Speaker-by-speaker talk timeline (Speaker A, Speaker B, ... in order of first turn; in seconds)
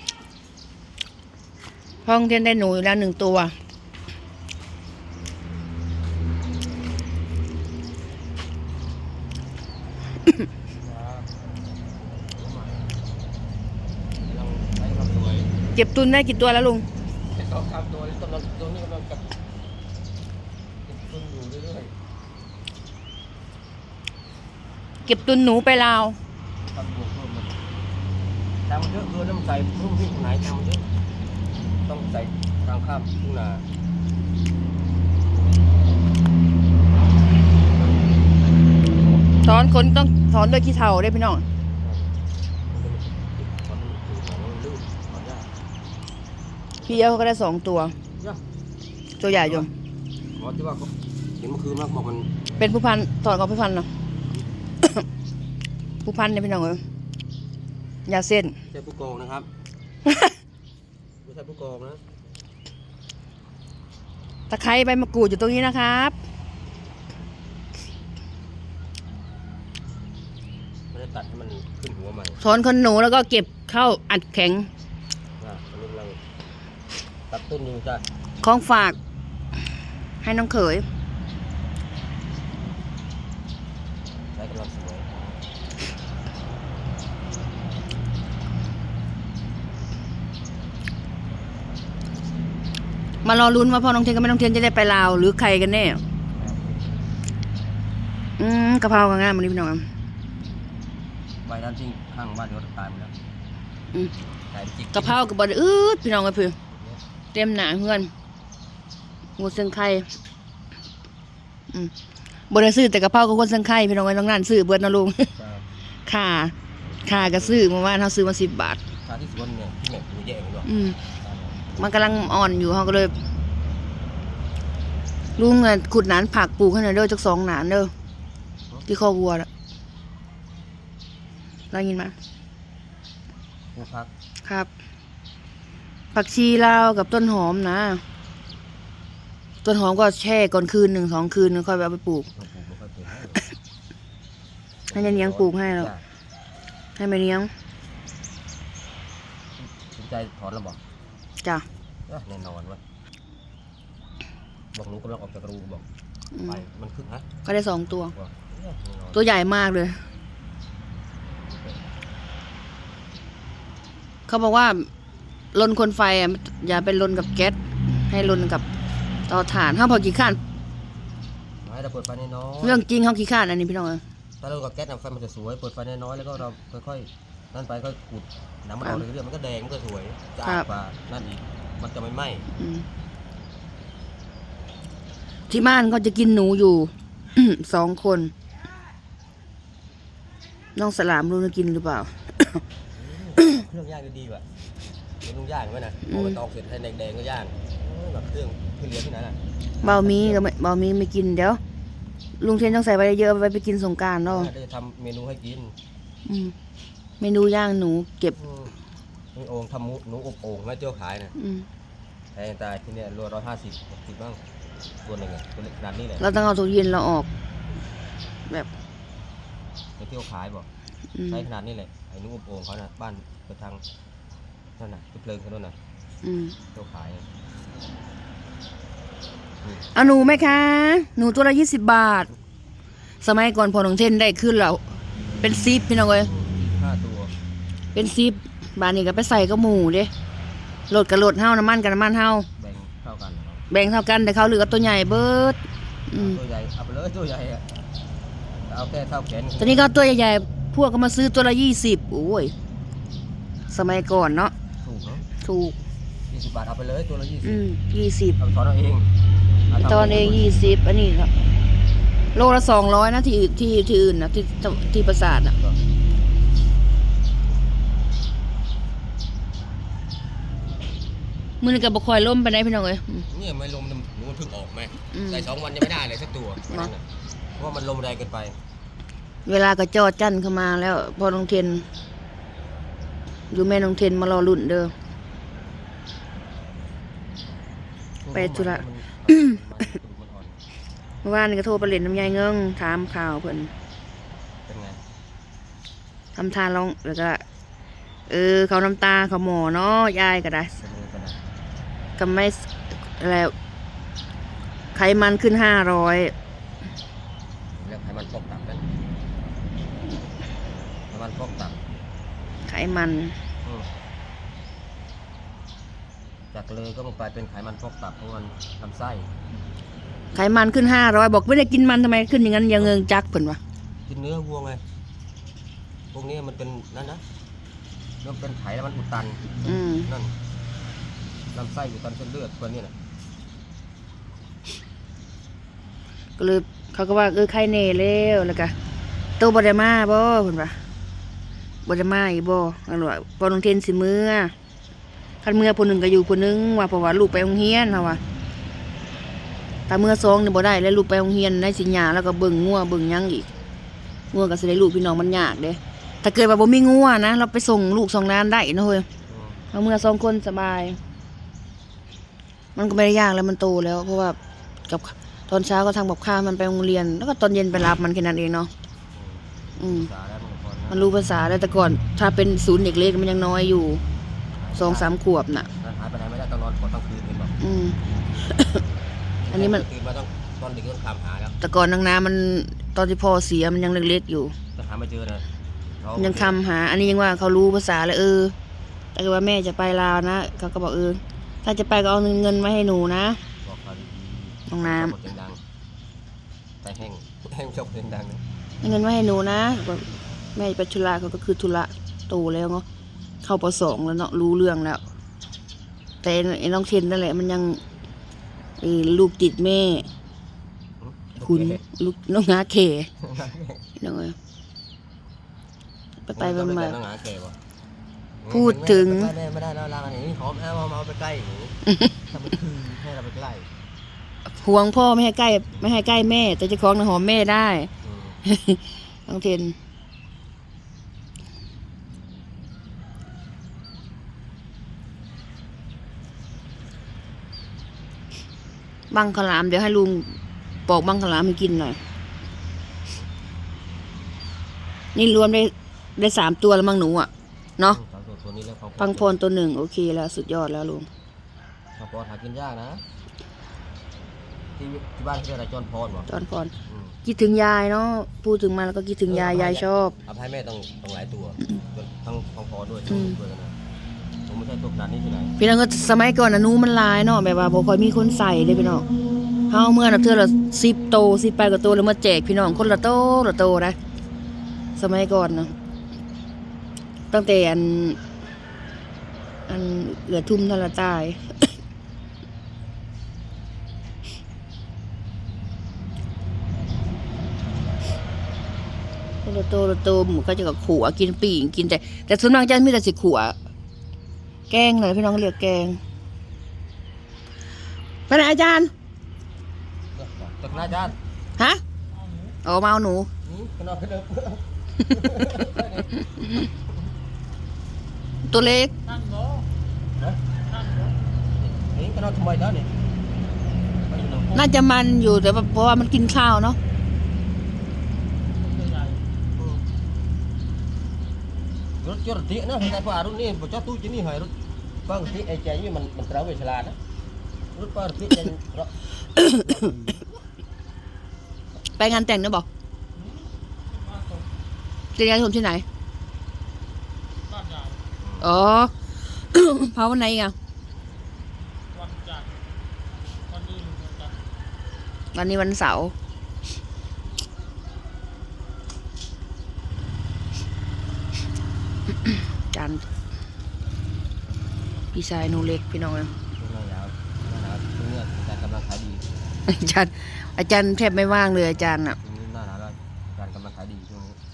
Speaker A: 2.0-3.5, 15.7-16.9, 25.0-26.2, 39.4-41.4, 46.8-47.9, 49.2-49.7, 52.6-53.9, 56.0-56.8, 58.0-58.5, 60.0-60.3, 64.5-66.1, 72.4-74.7, 78.4-79.0, 80.2-80.8, 93.2-96.0, 98.4-99.8, 104.9-106.5, 107.3-108.1, 109.4-110.1, 112.5-115.3, 116.0-118.8, 120.7-121.0, 121.8-123.1, 125.4-127.9, 128.9-129.5, 131.7-132.1, 136.1-138.0, 139.6-142.3, 144.9-145.9, 147.0-147.5, 156.3-156.6, 157.4-158.1, 159.1-160.0, 164.3-164.9, 165.5-167.6, 168.1-168.6, 169.3-170.4, 172.6-174.0, 182.6-182.8, 185.5-188.3, 190.8-192.6, 196.1-196.4, 199.8-201.6, 202.4-204.5, 206.2-206.5, 207.2-208.3, 211.3-211.7, 216.2-217.3, 221.1-221.4, 226.2-226.6, 229.9-232.3, 233.2-234.8, 235.4-236.3, 237.9-240.1, 240.9-242.5, 243.7-245.6, 246.1-246.4, 249.6-252.5, 253.7-254.5, 255.4-255.8, 257.4-258.4, 259.8-261.3, 262.3-265.6, 271.6-273.2, 275.1-275.5, 279.4-281.9, 283.5-284.9, 288.3-289.6, 291.2-293.7, 296.3-297.4, 298.3-300.7, 302.2-303.5, 304.9-306.3, 312.6-313.3, 320.3-323.6, 329.6-330.1, 336.4-338.7, 339.4-340.8, 341.8-344.5, 345.4-348.2, 349.9-353.5, 354.3-359.1, 359.7-361.0, 362.7-364.4, 364.9-368.7, 369.8-370.1, 370.9-374.0, 374.8-375.7, 377.6-378.8, 379.5-379.9, 381.6-384.5, 386.2-388.5, 389.1-393.4, 394.7-395.1, 398.8-402.8, 403.4-405.0, 406.2-407.8, 408.8-410.1, 411.4-413.1, 414.0-414.4, 416.3-417.0, 418.5-419.3, 424.5-427.9, 428.4-429.7, 439.1-440.4, 440.9-442.0, 445.1-448.0, 449.0-451.1, 456.3-456.7, 457.2-460.1, 463.1-463.4, 465.6-469.0, 469.7-473.9, 474.9-475.7, 477.3-478.2, 479.7-481.7, 489.4-493.6, 494.7-496.0, 498.3-498.9, 502.6-503.3, 505.2-505.5, 508.5-508.9, 514.5-516.8, 529.3-529.8, 532.0-532.6, 535.1-535.8, 538.4-540.5, 545.3-546.1, 552.7-553.0, 555.1-556.3, 559.7-562.2
Speaker B: 10.8-11.3, 12.1-12.9, 14.2-15.5, 17.3-19.3, 20.8-21.9, 26.7-27.6, 28.6-30.9, 31.9-33.6, 41.8-42.1, 42.7-45.5, 49.3-49.7, 50.3-52.3, 58.7-59.5, 61.2-62.0, 70.9-72.4, 75.4-76.2, 77.3-78.0, 84.3-85.3, 96.3-97.1, 101.4-103.1, 104.5-105.2, 106.7-107.0, 115.4-115.7, 116.8-117.7, 119.0-120.7, 121.2-121.8, 133.7-134.1, 142.3-143.4, 144.9-146.0, 149.6-150.8, 152.1-152.8, 154.7-155.8, 156.4-157.2, 158.1-159.3, 161.4-161.9, 171.6-172.8, 174.4-182.5, 192.9-194.4, 195.2-200.5, 204.2-205.7, 208.3-208.8, 209.3-211.3, 212.3-214.4, 215.0-216.3, 220.0-220.7, 221.3-223.8, 224.8-225.8, 226.7-227.2, 229.6-229.9, 236.2-237.3, 242.6-243.6, 246.1-247.7, 248.6-249.9, 254.8-255.2, 256.3-257.6, 258.4-259.1, 259.7-260.6, 273.3-278.6, 288.2-290.6, 294.7-295.0, 300.8-301.4, 307.8-308.9, 311.1-312.0, 313.6-313.9, 316.5-319.3, 324.1-324.8, 326.1-327.2, 328.2-330.3, 331.5-332.9, 359.3-359.6, 369.1-371.1, 374.6-375.1, 375.8-377.6, 379.4-381.5, 384.8-385.4, 386.0-386.6, 393.6-395.6, 396.8-398.4, 411.0-411.8, 413.2-413.8, 416.3-417.6, 418.4-421.8, 422.3-423.7, 428.0-428.4, 447.9-449.4, 451.9-453.0, 454.8-456.3, 456.9-457.2, 459.2-463.8, 464.5-465.5, 472.7-473.0, 500.1-501.2, 503.4-506.7, 511.5-512.9, 514.0-514.7, 519.6-519.8, 522.0-524.5, 525.0-527.0, 527.7-530.3, 538.2-538.5, 556.5-559.2, 561.7-564.4
Speaker C: 509.1-509.6, 510.7-511.1, 518.7-519.2, 534.0-534.4, 537.5-537.9, 541.9-542.5, 543.5-544.3